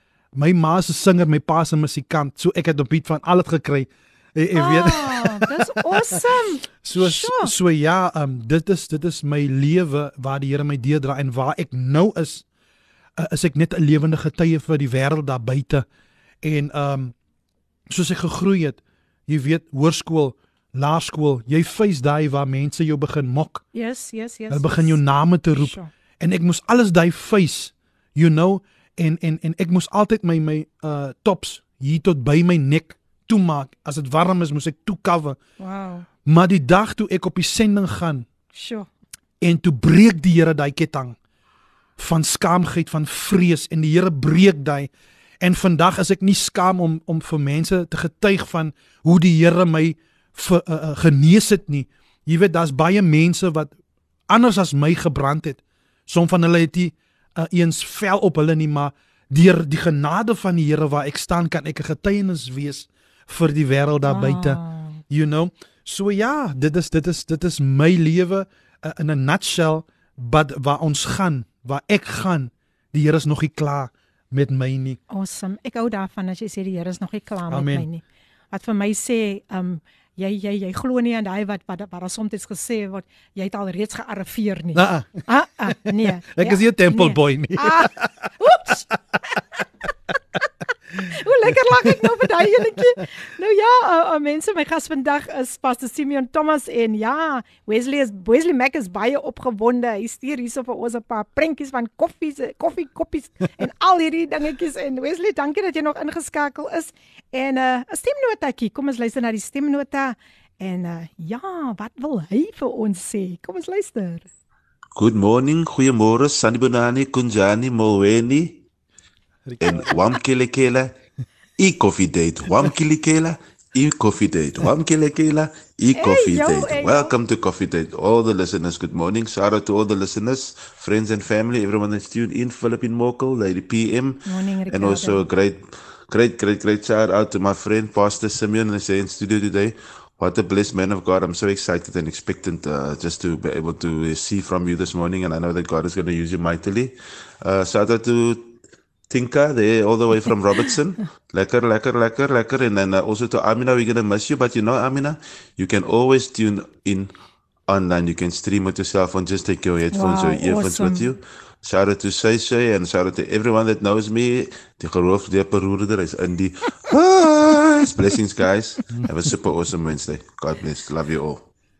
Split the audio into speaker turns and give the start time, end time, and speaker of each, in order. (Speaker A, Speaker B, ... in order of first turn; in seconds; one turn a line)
Speaker A: 0.3-12.4
Speaker B: 4.5-7.5
Speaker A: 13.2-15.8
Speaker A: 16.4-17.1
Speaker A: 17.9-23.6
Speaker B: 23.7-25.0
Speaker A: 24.5-35.4
Speaker B: 25.5-25.9
Speaker B: 35.6-36.1
Speaker A: 36.2-38.3
Speaker B: 38.5-38.9
Speaker A: 39.4-41.1
Speaker A: 42.0-44.9
Speaker A: 45.4-53.7
Speaker A: 54.3-75.0
Speaker B: 64.0-65.0
Speaker B: 75.1-89.4
Speaker A: 77.5-77.9
Speaker A: 84.7-85.7
Speaker A: 86.3-88.3
Speaker B: 90.9-114.3
Speaker A: 91.7-92.1
Speaker C: 114.9-118.6
Speaker A: 119.5-119.9
Speaker C: 119.6-120.9
Speaker C: 121.6-148.6
Speaker B: 125.9-127.1
Speaker B: 134.2-135.3
Speaker C: 149.1-157.1
Speaker C: 157.7-171.4
Speaker B: 159.9-161.1